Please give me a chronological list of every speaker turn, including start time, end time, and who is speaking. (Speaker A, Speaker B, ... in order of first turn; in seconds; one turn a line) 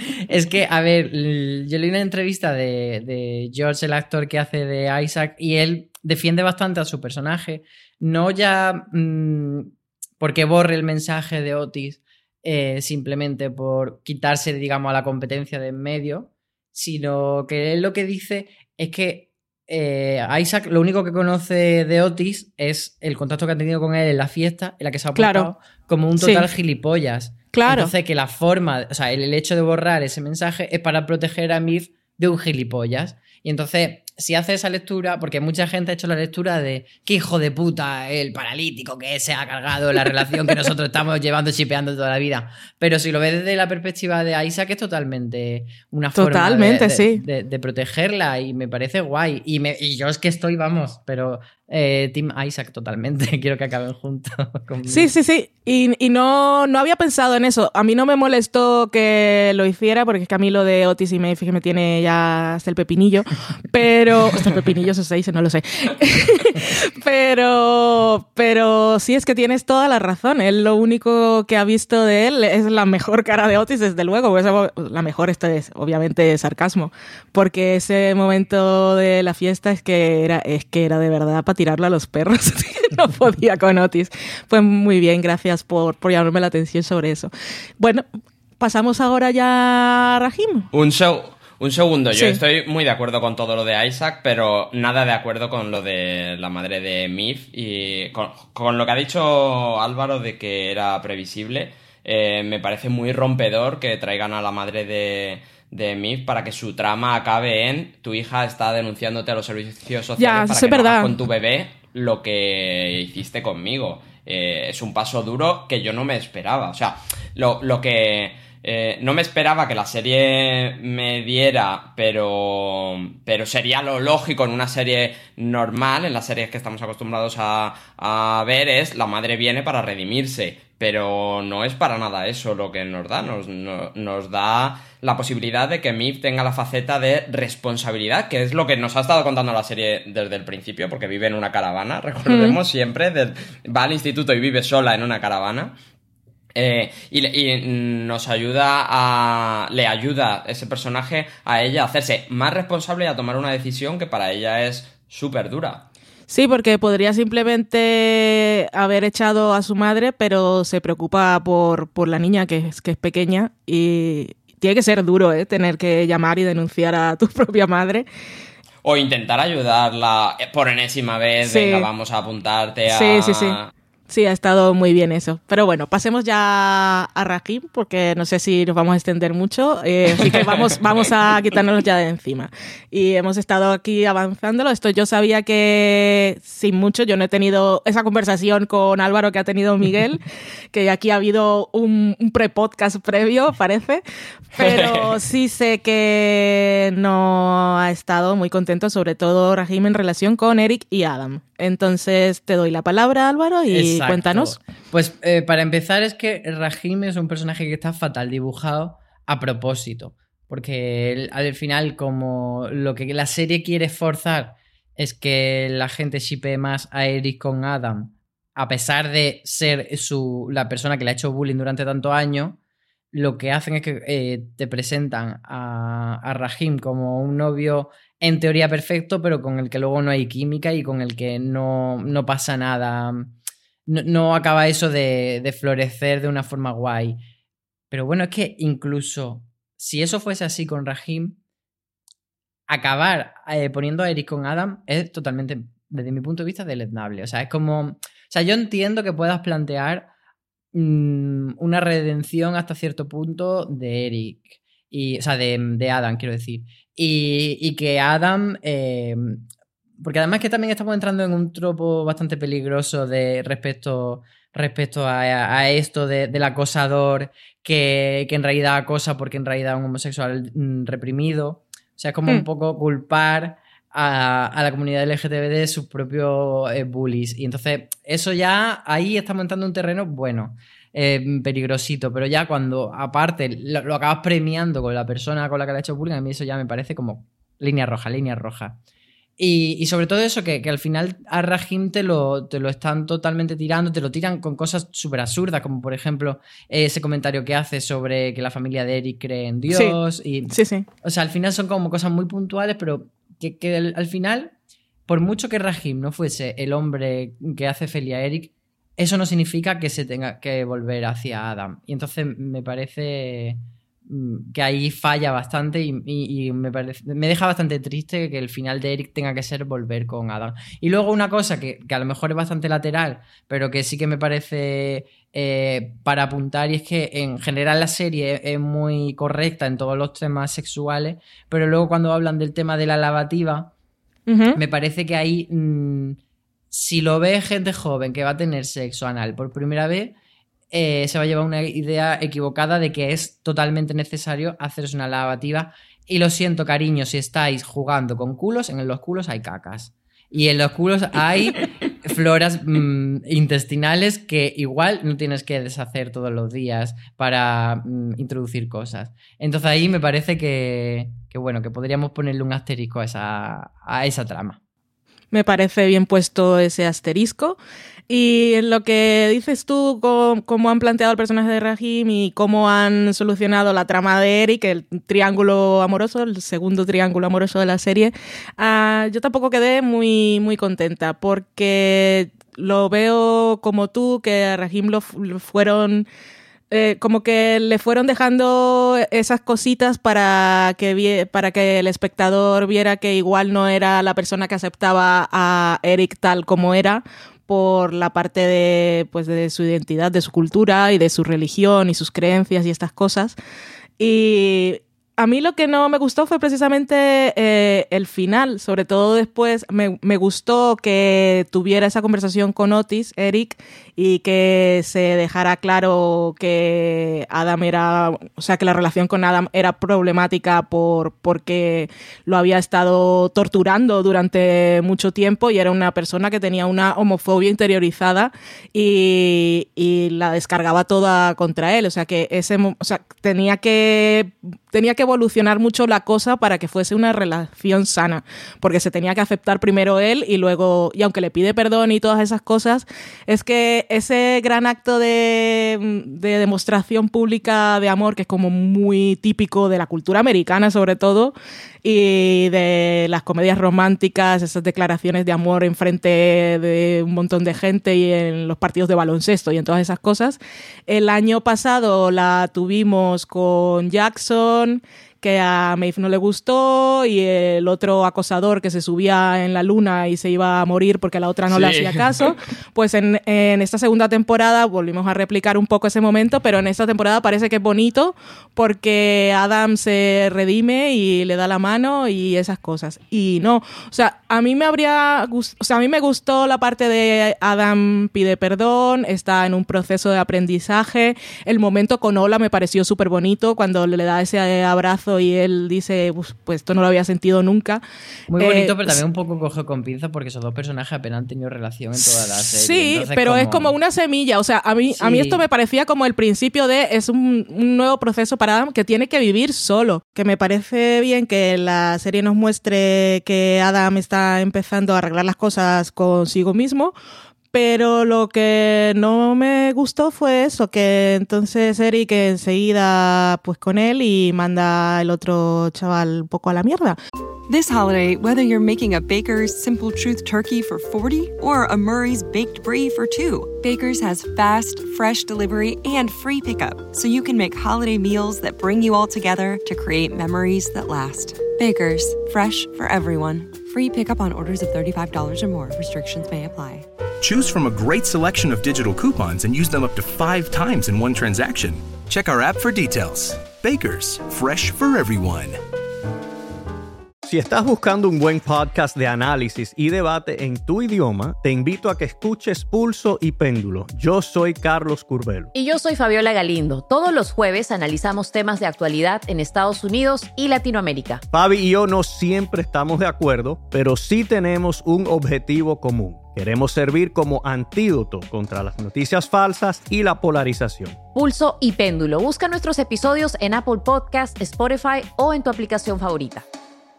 Speaker A: 0.1-55.1
Speaker B: 25.2-25.5
Speaker B: 26.2-26.5
Speaker B: 27.5-27.9
Speaker B: 46.2-47.2
Speaker B: 54.9-88.0
Speaker B: 88.6-90.7
Speaker C: 90.7-145.8
Speaker B: 92.1-92.4
Speaker B: 110.2-111.1
Speaker B: 142.3-142.6
Speaker C: 146.5-155.9
Speaker B: 156.3-168.1
Speaker C: 168.8-173.7
Speaker B: 171.4-171.9
Speaker B: 172.9-173.6
Speaker B: 174.1-194.0
Speaker B: 194.6-204.6
Speaker C: 194.6-195.1
Speaker A: 203.7-222.6
Speaker A: 223.1-233.3
Speaker A: 233.9-237.2
Speaker A: 237.9-241.4
Speaker A: 242.7-250.1
Speaker A: 250.7-259.5
Speaker A: 260.0-288.8
Speaker A: 289.4-304.5
Speaker B: 299.7-300.0
Speaker B: 300.5-300.9
Speaker A: 305.1-333.7
Speaker B: 334.3-334.6
Speaker A: 334.5-336.2
Speaker A: 336.7-340.2
Speaker A: 340.7-364.6
Speaker B: 365.3-386.1
Speaker B: 386.7-403.4
Speaker B: 404.0-497.8
Speaker C: 471.5-472.3
Speaker A: 498.3-503.8
Speaker B: 498.4-499.0
Speaker B: 502.0-516.9
Speaker A: 504.9-505.4
Speaker B: 517.5-527.0
Speaker D: 527.5-546.9
Speaker E: 547.2-555.6
Speaker F: 557.2-565.5
Speaker G: 565.5-571.2
Speaker F: 571.3-581.0
Speaker G: 581.1-586.5